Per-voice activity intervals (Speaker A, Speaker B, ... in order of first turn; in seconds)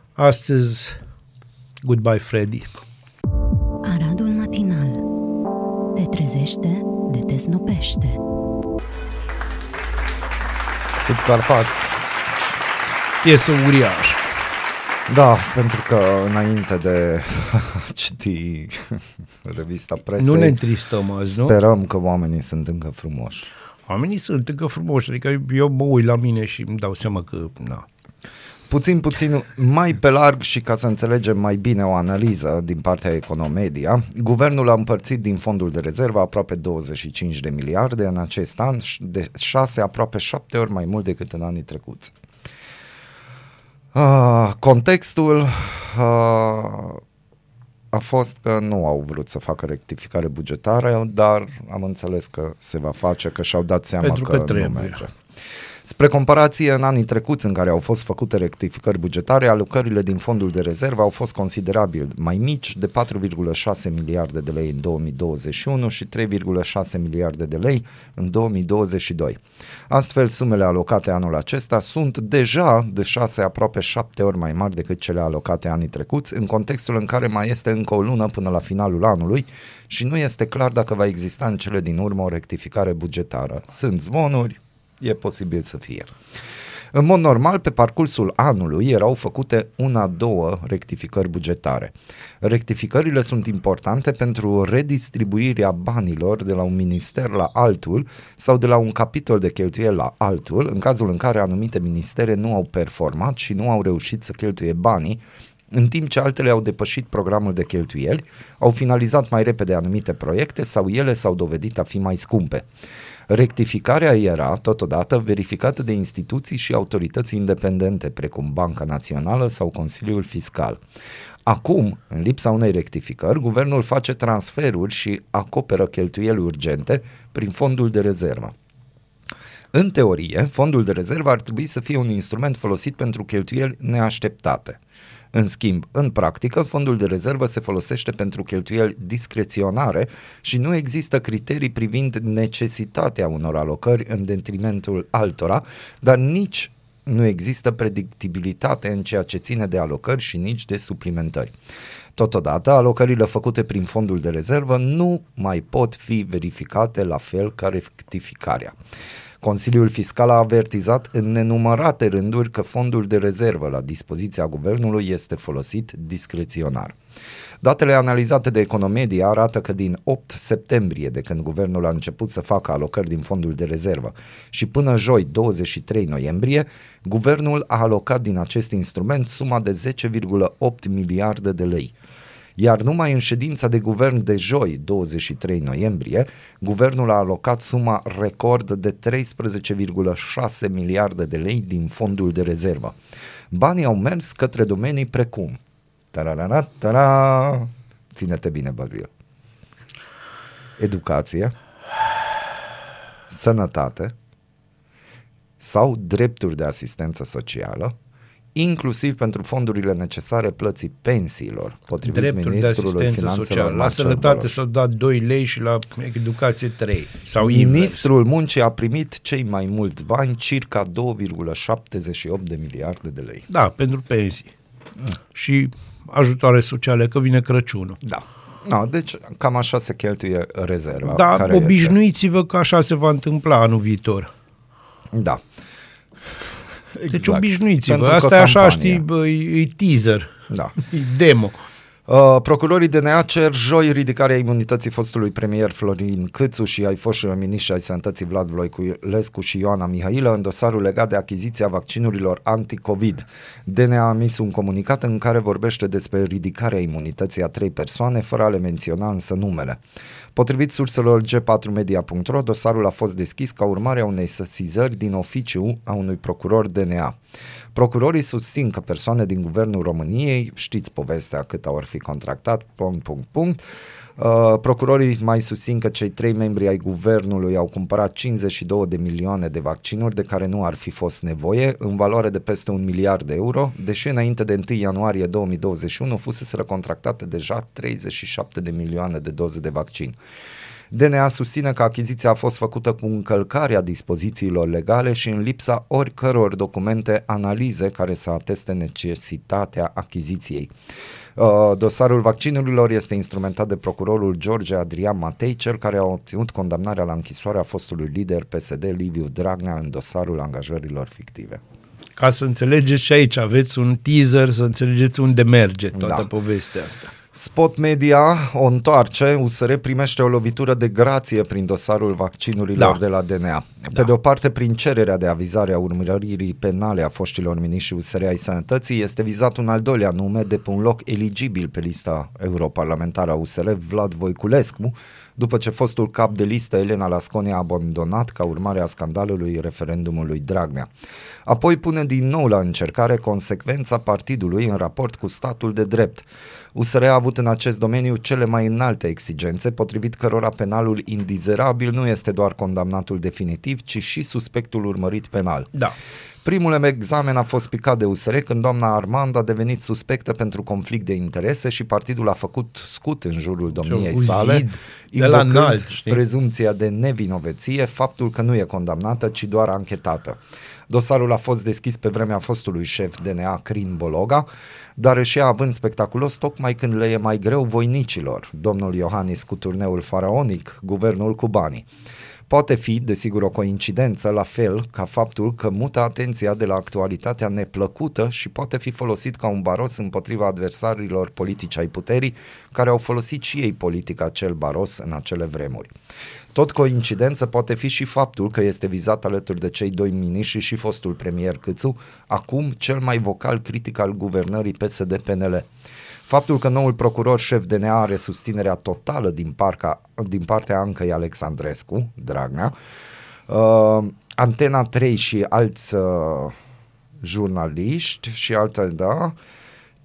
Speaker A: 0.1-1.0, 1.8-2.7, 13.2-14.2, 20.2-21.5, 23.9-27.9, 54.0-55.0, 212.0-218.0, 223.5-224.5, 225.3-228.0, 231.1-234.3, 237.1-241.6, 312.2-317.1, 363.8-366.2
Speaker B: 3.8-5.0, 5.9-8.2
Speaker C: 10.9-11.9, 15.1-20.6, 21.4-23.5, 28.7-42.1, 43.9-47.0, 47.9-55.1, 55.8-86.1, 86.9-112.7, 113.3-120.8, 121.5-128.5, 129.7-134.8, 135.3-151.5, 152.1-158.7, 159.4-167.0, 167.6-181.9, 182.6-193.0, 193.5-195.6, 196.1-199.1, 200.8-201.6, 203.3-204.1, 205.6-207.9, 208.5-214.6, 217.4-223.5, 228.0-231.9, 235.1-235.4, 236.9-239.0, 240.5-240.7, 242.1-259.8, 260.3-267.2, 267.7-273.6, 274.2-290.2, 290.9-300.7, 301.4-311.6, 315.9-316.3, 317.3-340.9, 341.4-355.7, 356.4-381.9, 382.5-395.9, 396.5-405.7, 406.2-412.7, 413.5-416.5, 417.2-419.3